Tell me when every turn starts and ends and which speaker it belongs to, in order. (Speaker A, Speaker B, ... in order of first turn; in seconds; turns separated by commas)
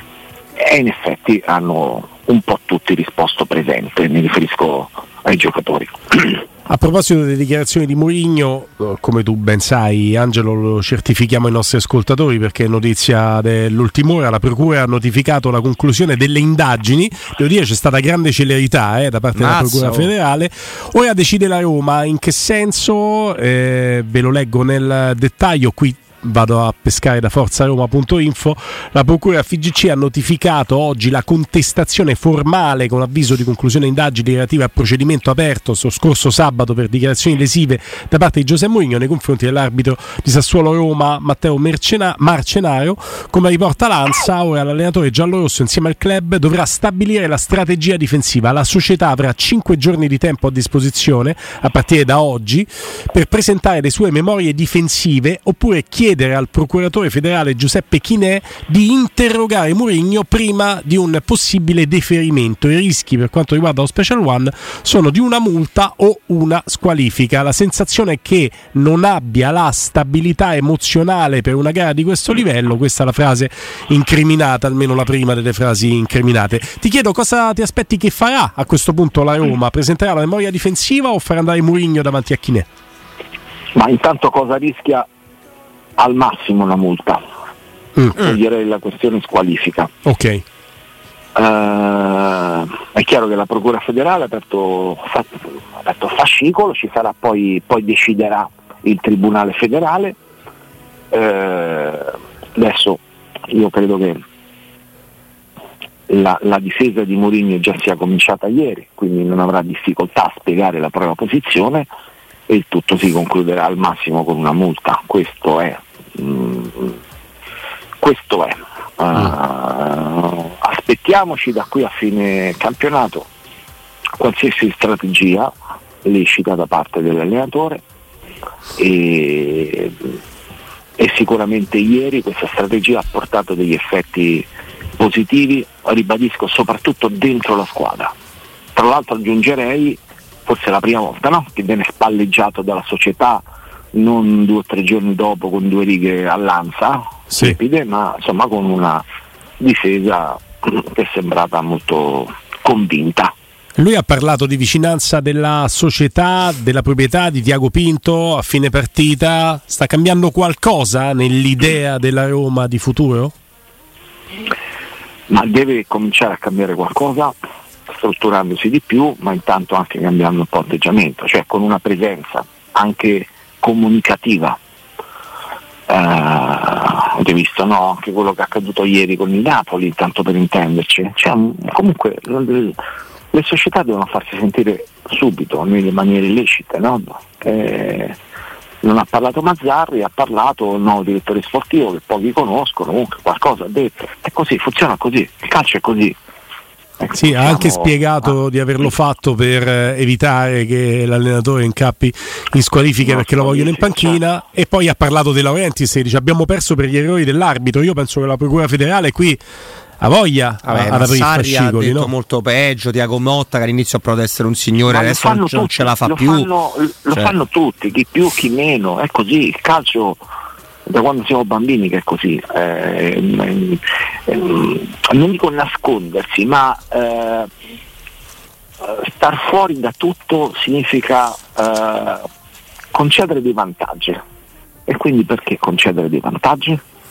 Speaker A: 0.6-6.4, Speaker B: 6.7-82.7, Speaker C: 19.3-20.1, Speaker A: 83.7-85.1, Speaker A: 86.0-87.2, Speaker A: 88.1-89.9, Speaker B: 90.0-90.4, Speaker A: 91.3-100.2, Speaker A: 101.1-104.2, Speaker A: 106.1-111.9, Speaker A: 112.5-117.0, Speaker A: 118.0-123.3, Speaker A: 124.2-125.5, Speaker A: 126.0-127.8, Speaker A: 128.8-130.1, Speaker A: 131.0-138.1, Speaker A: 138.7-149.0, Speaker A: 149.6-153.3, Speaker B: 153.8-163.3, Speaker A: 165.3-167.3, Speaker A: 167.9-174.6, Speaker A: 175.9-182.8, Speaker A: 183.3-188.2, Speaker A: 188.8-196.2, Speaker A: 197.0-198.3, Speaker B: 197.2-209.4, Speaker A: 203.0-204.2, Speaker B: 210.0-212.1, Speaker C: 210.6-216.5, Speaker A: 214.9-220.2, Speaker A: 220.9-227.5, Speaker A: 228.8-232.3, Speaker A: 232.9-234.2, Speaker A: 234.9-236.8